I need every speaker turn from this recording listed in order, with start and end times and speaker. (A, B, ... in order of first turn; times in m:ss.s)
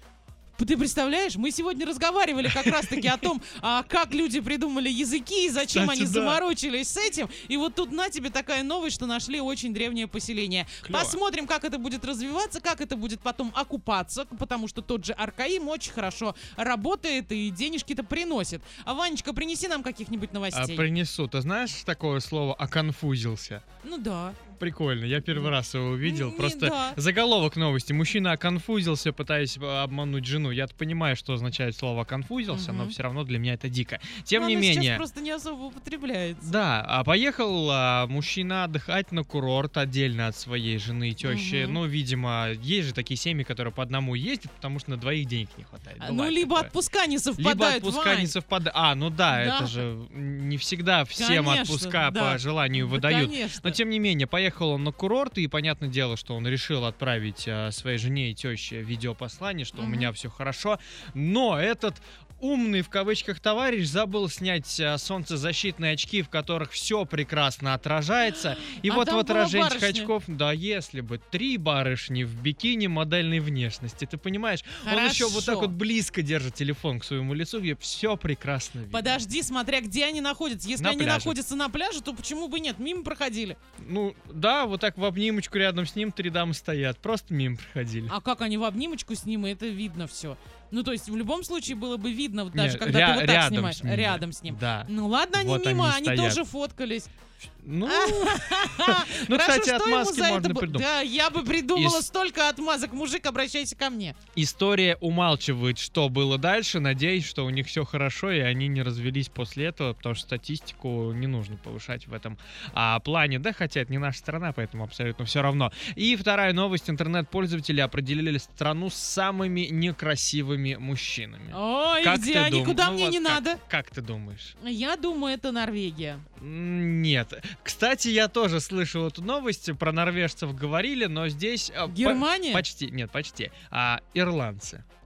0:00.6-0:20.9 A
0:02.4-0:03.3 B
0:05.6-0:06.4 B
0:10.8-0:11.2 B
0:20.5-0:23.6 B
0:23.8-0:24.4 A
0:24.5-0:35.0 B
0:26.0-0:27.0 A
0:32.5-0:33.0 A
0:34.3-0:36.6 A
0:36.4-0:46.7 B
0:41.2-0:41.8 A
0:46.0-0:48.4 A
0:47.4-1:19.2 B
0:49.3-0:49.8 A
0:51.1-0:53.8 A
0:59.7-1:00.1 A
1:08.3-1:10.1 A
1:14.8-1:15.7 A
1:18.9-1:23.6 A
1:20.8-1:21.4 B
1:23.8-1:28.1 B
1:28.1-1:37.1 A
1:32.5-1:36.4 B
1:37.6-1:41.0 B
1:37.8-1:44.2 A
1:41.7-1:42.1 B
1:44.3-2:04.5 B
2:01.5-2:03.6 A
2:04.6-2:06.2 A
2:06.4-2:14.8 B
2:11.8-2:12.6 A